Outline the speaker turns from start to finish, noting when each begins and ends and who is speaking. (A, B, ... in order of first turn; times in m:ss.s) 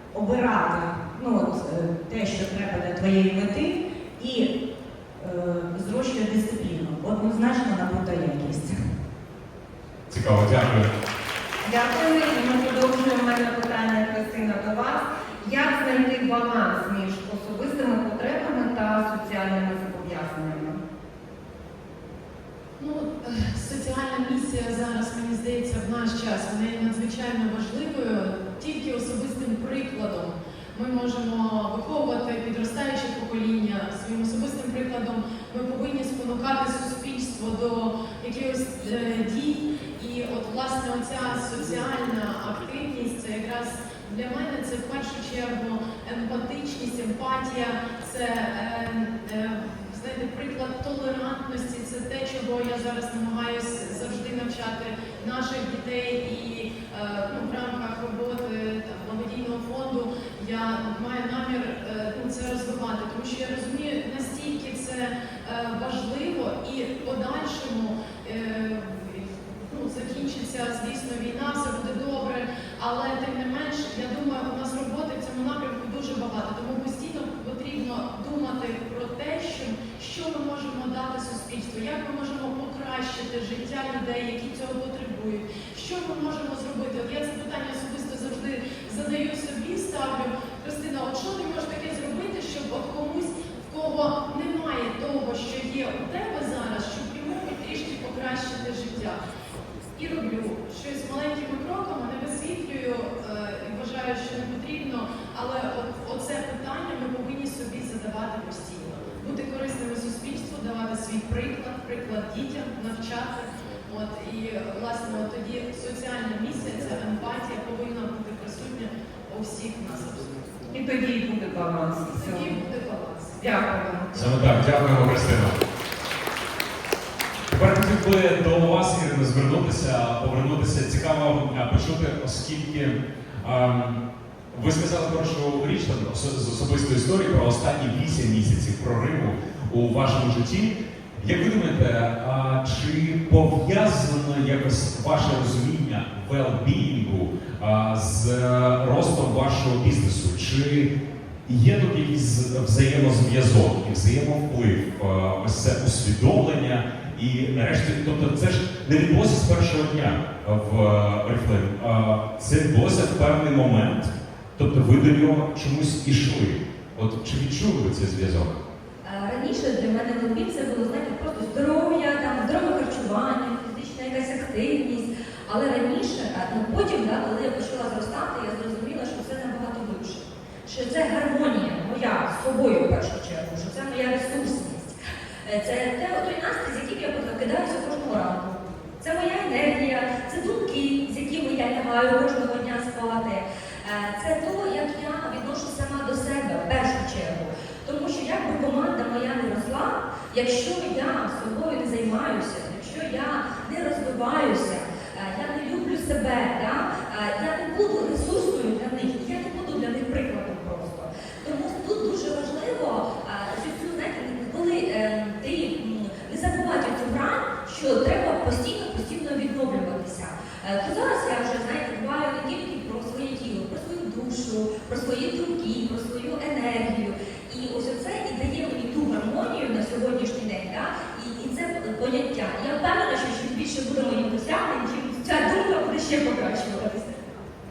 0:00.1-0:04.5 A
0:05.2-0:08.7 A
0:10.1-0:10.9 B
0:11.6-0:20.8 C
0:22.8-1:39.2 D
1:40.0-2:00.4 D
2:00.7-2:02.5 C
2:02.0-2:03.4 D
2:03.4-2:04.2 C
2:04.1-2:05.6 B
2:07.5-2:14.0 B
2:14.5-2:30.9 B
2:31.4-2:48.6 B
2:49.0-3:57.4 E